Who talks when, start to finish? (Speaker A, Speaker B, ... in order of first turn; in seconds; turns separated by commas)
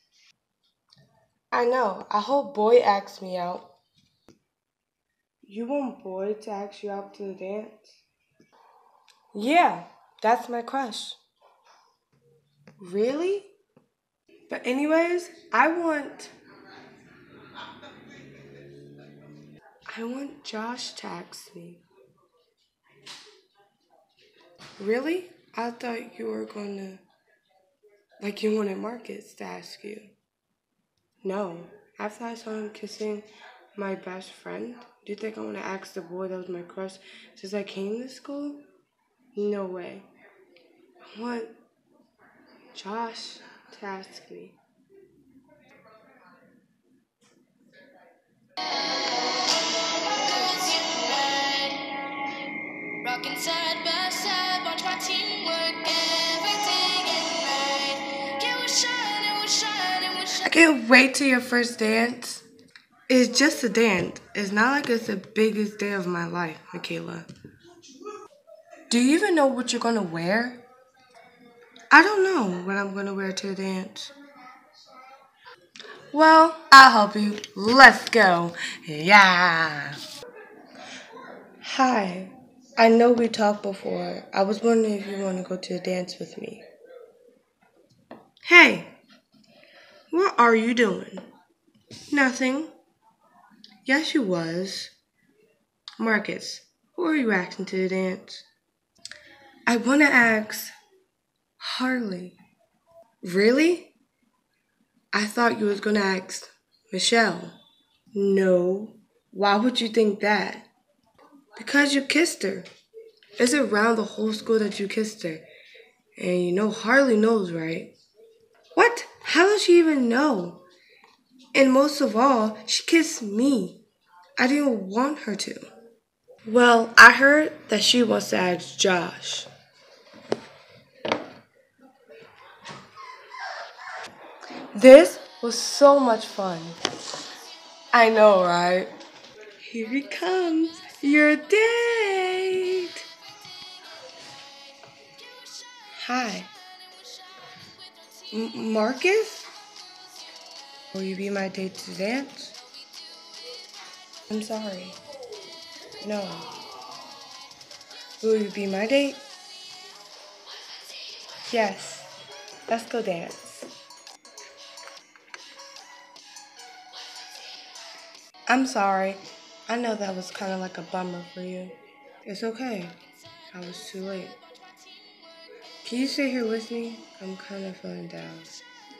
Speaker A: 1.5-3.7, Speaker A: 5.5-7.8, Speaker A: 9.3-11.2, Speaker A: 12.8-13.5, Speaker A: 14.5-16.3, Speaker A: 19.9-21.8, Speaker A: 24.8-27.0, Speaker A: 28.2-30.1, Speaker A: 31.2-38.6, Speaker A: 39.4-40.1, Speaker A: 41.1-41.6, Speaker A: 42.7-44.6, Speaker B: 50.2-52.1, Speaker B: 53.0-60.4, Speaker A: 60.4-62.4, Speaker A: 63.1-67.3, Speaker A: 68.9-70.6, Speaker A: 71.9-74.1, Speaker A: 76.1-80.0, Speaker A: 81.6-86.6, Speaker A: 88.5-88.9, Speaker A: 90.1-91.3, Speaker A: 92.1-92.7, Speaker A: 93.8-94.9, Speaker A: 96.0-98.4, Speaker A: 99.7-100.7, Speaker A: 101.6-102.4, Speaker A: 103.2-103.9, Speaker A: 105.1-107.5, Speaker A: 108.1-110.7, Speaker A: 111.6-112.7, Speaker A: 113.4-115.5, Speaker A: 116.2-117.9, Speaker A: 118.8-120.6, Speaker A: 121.5-123.8, Speaker A: 124.4-125.6, Speaker A: 126.5-129.5, Speaker A: 134.7-136.8, Speaker A: 137.9-138.9, Speaker A: 139.6-143.1, Speaker B: 145.1-145.9, Speaker A: 145.9-146.5, Speaker B: 146.8-148.3, Speaker A: 148.3-149.5, Speaker A: 150.8-152.6, Speaker B: 153.0-153.9, Speaker A: 154.3-155.0, Speaker A: 156.0-156.5, Speaker A: 158.2-159.2, Speaker A: 161.5-162.1, Speaker A: 162.7-163.7, Speaker A: 168.5-173.0, Speaker A: 173.5-174.4, Speaker B: 174.8-175.4, Speaker A: 175.8-178.5